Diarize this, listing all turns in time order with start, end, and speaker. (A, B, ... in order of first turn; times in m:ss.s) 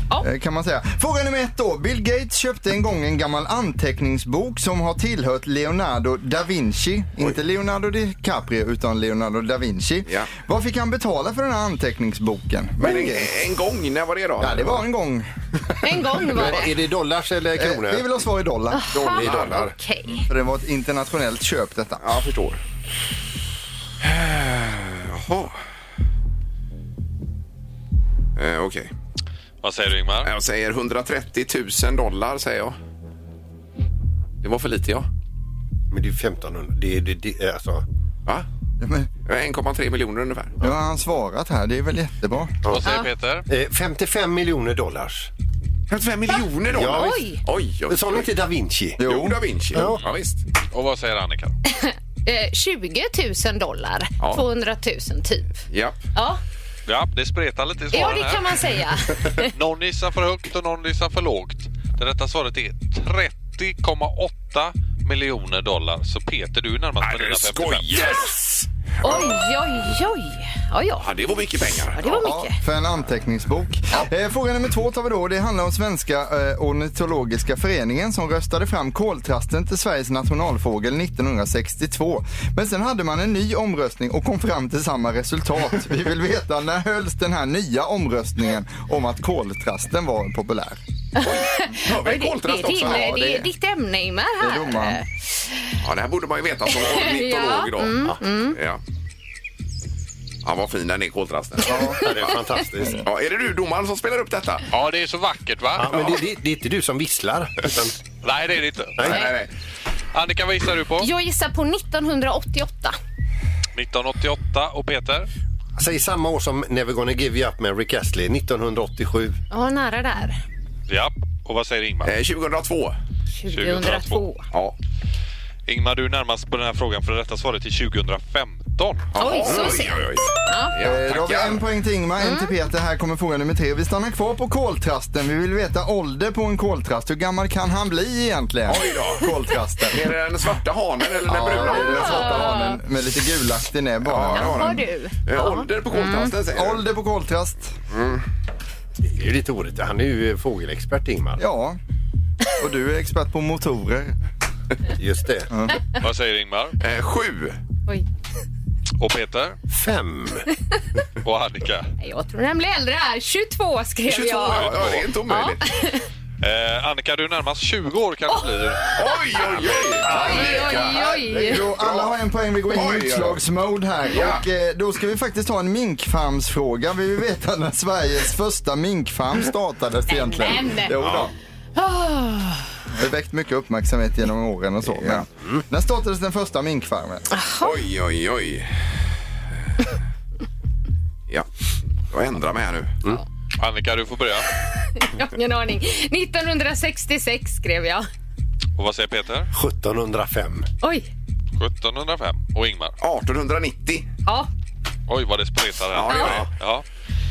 0:00.2-0:13.4 A
0:12.8-0:14.8 B
0:14.4-0:16.5 A
0:15.8-0:16.7 C
0:16.3-0:18.1 D
0:17.6-0:22.1 A
0:18.7-0:20.3 C
0:19.2-0:19.6 B
0:19.2-0:19.7 D
0:22.0-0:22.6 B
0:24.0-0:25.6 B
0:28.4-0:28.9 B
0:29.6-0:30.3 E
0:30.2-0:32.8 B
0:34.4-0:35.1 B
0:35.9-0:37.8 D
0:38.8-0:39.1 A
0:39.3-0:40.6 B
0:40.6-0:42.6 A
0:42.6-0:42.9 D
0:42.7-0:43.5 E
0:43.5-0:45.3 D
0:45.9-0:48.3 B
0:46.7-0:47.2 D
0:46.9-0:47.4 C
0:47.9-0:49.0 D
0:49.0-0:49.4 A
0:49.0-0:50.4 B
0:49.7-0:50.0 D
0:50.7-0:51.6 E
0:51.7-0:55.6 C
0:55.7-0:56.0 B
0:56.2-0:56.4 C
0:56.9-0:58.6 E
0:57.9-0:59.5 C
0:59.5-1:08.2 E
1:07.0-1:08.3 B
1:09.0-1:11.1 C
1:09.0-1:09.4 B
1:11.0-1:12.3 B
1:11.9-1:12.6 C
1:12.2-1:30.8 A
1:31.2-1:35.7 C
1:31.2-1:33.1 B
1:32.7-1:33.5 A
1:34.4-1:35.0 A
1:35.8-1:38.8 B
1:36.9-1:38.6 C
1:40.4-1:42.3 B
1:41.7-1:42.0 A
1:41.9-1:43.0 D
1:42.8-1:43.0 A
1:43.0-1:44.7 B
1:44.7-1:46.2 E
1:45.8-1:48.0 D
1:48.2-1:49.3 E
1:49.0-1:49.2 D
1:49.0-1:49.5 B
1:50.1-1:51.1 E
1:51.0-1:53.0 C
1:53.8-1:55.3 E
1:55.8-1:59.4 D
1:59.5-2:00.4 C
2:00.9-2:02.2 E
2:02.0-2:03.0 B
2:03.4-2:04.4 C
2:03.5-2:04.2 E
2:05.7-2:09.1 E
2:09.1-2:11.6 B
2:09.2-2:10.7 C
2:10.8-2:20.1 A
2:12.2-2:12.5 C
2:18.7-2:19.2 B
2:19.9-2:22.4 B
2:21.3-2:24.7 A
2:21.6-2:22.8 C
2:24.0-2:26.8 B
2:24.4-2:26.3 C
2:26.5-2:27.7 A
2:27.9-2:28.2 B
2:29.0-2:31.4 D
2:31.4-2:31.8 A
2:32.6-2:34.1 A
2:35.0-2:35.5 D
2:36.0-2:36.8 E
2:36.8-2:37.6 B
2:39.0-2:39.6 E
2:39.7-2:40.4 D
2:41.2-2:41.9 E
2:42.0-2:44.7 C
2:44.1-2:45.6 B
2:44.6-2:45.1 E
2:45.3-2:46.0 C
2:46.4-2:48.9 E
2:49.0-2:52.2 B
2:50.0-2:51.7 C
2:51.2-3:01.3 A
2:52.7-2:53.4 B
2:54.1-2:54.4 B
3:00.1-3:01.0 C
3:01.0-3:01.3 D
3:01.8-3:02.7 C
3:02.9-3:07.2 A
3:05.0-3:05.2 B
3:07.3-3:07.7 C
3:07.6-3:08.7 B
3:12.1-3:13.0 B
3:13.6-3:14.5 E
3:15.0-3:18.0 C
3:18.8-3:19.5 E
3:19.5-3:20.7 D
3:20.8-3:21.1 C
3:21.6-3:23.0 E
3:23.0-3:24.1 B
3:25.1-3:26.8 E
3:25.9-3:26.5 B
3:26.2-3:26.5 D